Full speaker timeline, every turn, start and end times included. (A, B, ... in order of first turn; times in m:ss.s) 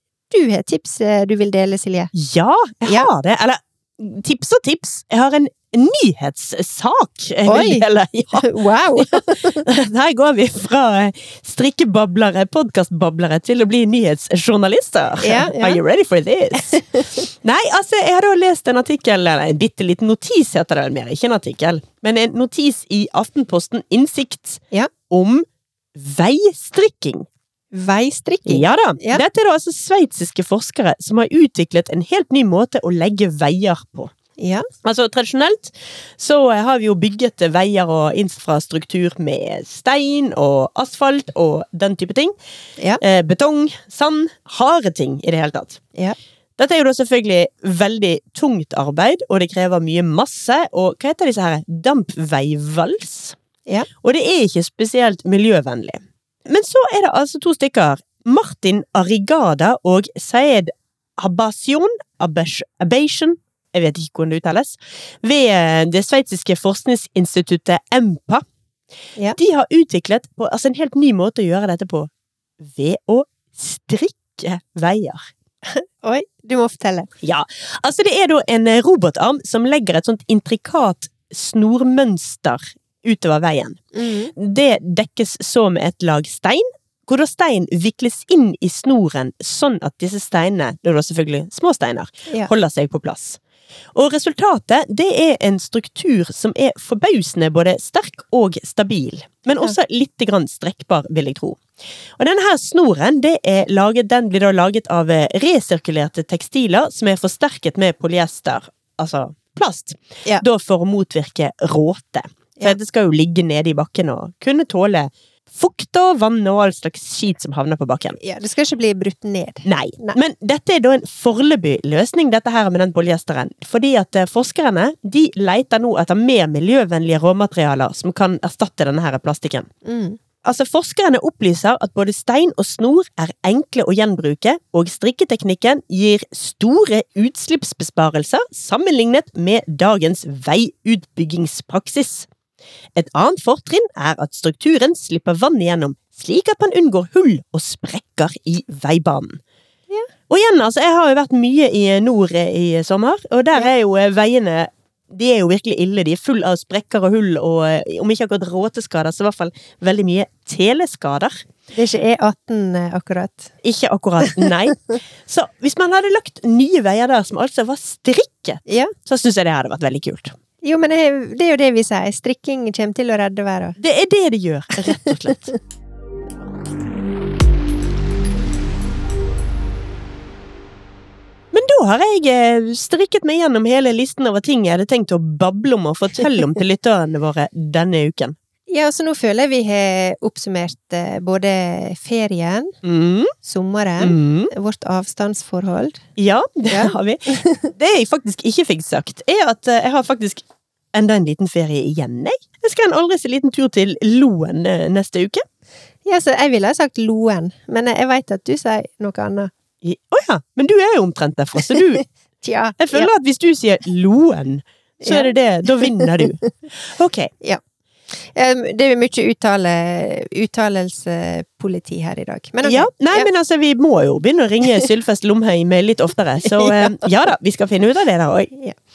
0:00.3-0:02.1 A
0:02.1-0:27.2 B
0:07.4-0:09.7 A
0:15.2-0:15.8 A
0:16.6-0:17.3 A
0:27.7-0:29.2 A
0:28.4-0:34.1 B
0:34.4-0:34.7 A
0:34.8-0:42.3 B
0:43.0-0:45.8 B
0:46.6-0:53.4 B
0:54.0-1:08.4 B
1:09.3-1:15.3 B
1:15.6-1:17.1 A
1:17.2-1:23.8 B
1:23.9-1:24.3 A
1:24.3-1:33.4 B
1:33.9-1:41.6 B
1:42.2-1:58.2 B
1:58.2-2:00.2 A
1:59.6-2:09.7 B
2:09.8-2:10.2 A
2:10.4-2:22.3 B
2:22.9-2:29.4 B
2:30.3-2:41.4 B
2:41.7-2:43.5 A
2:43.6-2:50.4 B
2:44.2-2:44.7 A
2:48.6-2:48.9 A
2:50.6-2:53.8 A
2:53.8-2:55.5 B
3:01.5-3:08.4 B
3:08.7-3:12.8 A
3:12.8-3:13.3 B
3:13.4-3:16.0 A
3:14.0-3:14.5 B
3:16.2-3:25.4 B
3:16.7-3:17.7 A
3:26.0-3:29.5 A
3:29.8-3:32.0 B
3:31.7-3:33.1 A
3:32.8-3:37.3 B
3:35.0-3:36.2 A
3:38.3-3:43.3 A
3:42.6-3:48.5 B
3:46.5-3:47.0 A